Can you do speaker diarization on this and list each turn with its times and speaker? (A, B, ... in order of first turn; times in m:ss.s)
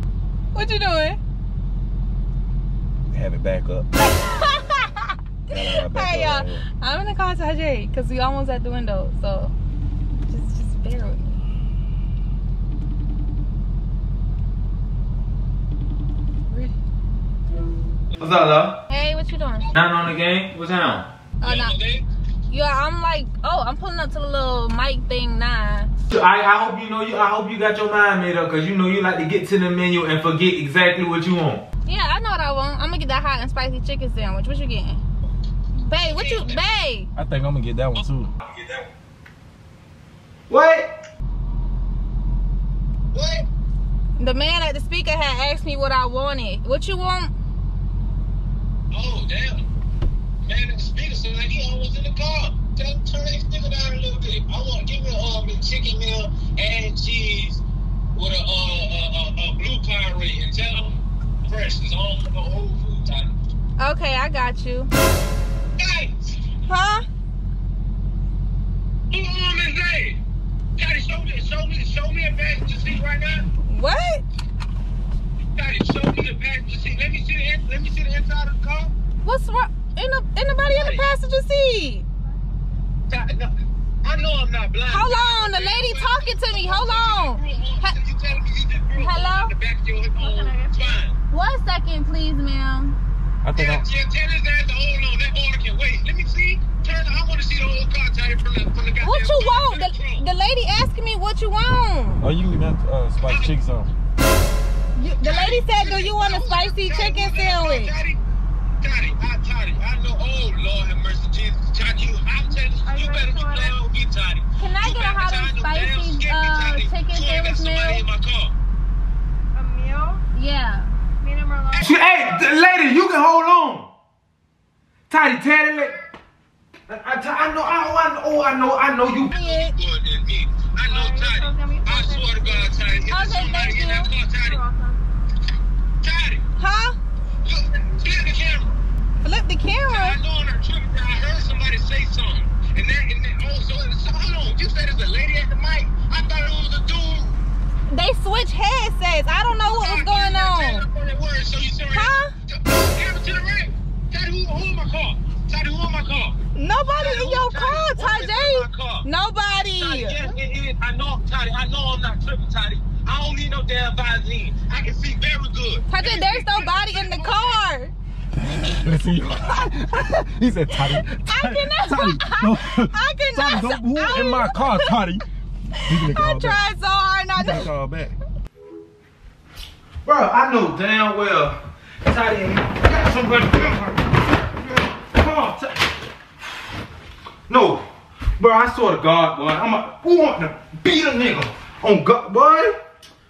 0:00.5-0:01.2 A
0:03.1-0:03.9 B
0:04.0-0:09.5 A
0:05.5-0:06.6 B
0:10.3-0:11.4 A
0:16.5-0:16.7 A
0:18.2-0:18.8 C
0:18.9-0:19.7 A
0:19.7-0:21.1 C
0:21.4-0:21.8 A
0:21.4-0:22.0 D
0:22.5-0:25.9 A
0:26.1-0:31.6 C
0:31.8-0:35.0 A
0:35.8-0:37.1 A
0:36.0-0:36.6 D
0:37.2-0:38.3 B
0:40.5-0:40.9 C
0:43.1-0:43.5 D
0:44.2-0:47.3 A
0:48.9-0:49.6 D
0:50.4-0:57.6 D
0:58.1-1:03.3 D
1:03.8-1:04.9 A
1:05.8-1:06.4 D
1:06.7-1:07.0 A
1:09.1-1:10.2 D
1:10.8-1:13.4 D
1:13.6-1:14.2 A
1:15.5-1:18.9 D
1:19.2-1:22.0 A
1:20.6-1:21.1 D
1:23.1-1:23.5 D
1:24.0-1:31.2 D
1:24.9-1:27.9 A
1:29.0-1:29.5 A
1:30.2-1:31.0 E
1:31.3-1:33.0 A
1:33.4-1:33.8 B
1:33.6-1:40.2 D
1:39.0-1:42.3 A
1:42.2-1:43.9 B
1:43.2-1:43.5 D
1:45.0-1:47.9 A
1:45.2-1:48.2 D
1:48.8-1:58.5 D
1:52.8-1:53.7 E
1:54.6-1:58.0 A
1:59.5-2:00.2 E
2:00.3-2:00.9 A
2:01.2-2:01.8 E
2:01.7-2:02.5 D
2:01.8-2:03.9 C
2:05.1-2:06.0 C
2:06.9-2:09.3 C
2:09.3-2:14.6 D
2:09.3-2:09.7 A
2:10.9-2:12.8 E
2:13.1-2:14.1 A
2:14.3-2:15.0 E
2:16.0-2:16.4 D
2:16.6-2:17.0 A
2:17.4-2:18.8 D
2:19.2-2:20.2 A
2:19.9-2:27.4 D
2:27.9-2:30.9 A
2:29.6-2:36.4 D
2:31.9-2:32.3 A
2:36.5-2:40.3 A
2:36.9-2:39.1 D
2:39.8-2:47.6 D
2:45.9-2:47.9 A
2:48.6-2:55.2 B
2:51.3-2:54.9 A
2:55.8-2:57.7 A
2:55.8-2:56.6 B
2:57.3-2:58.2 B
3:00.0-3:05.8 C
3:07.5-3:07.8 C
3:08.4-3:12.8 C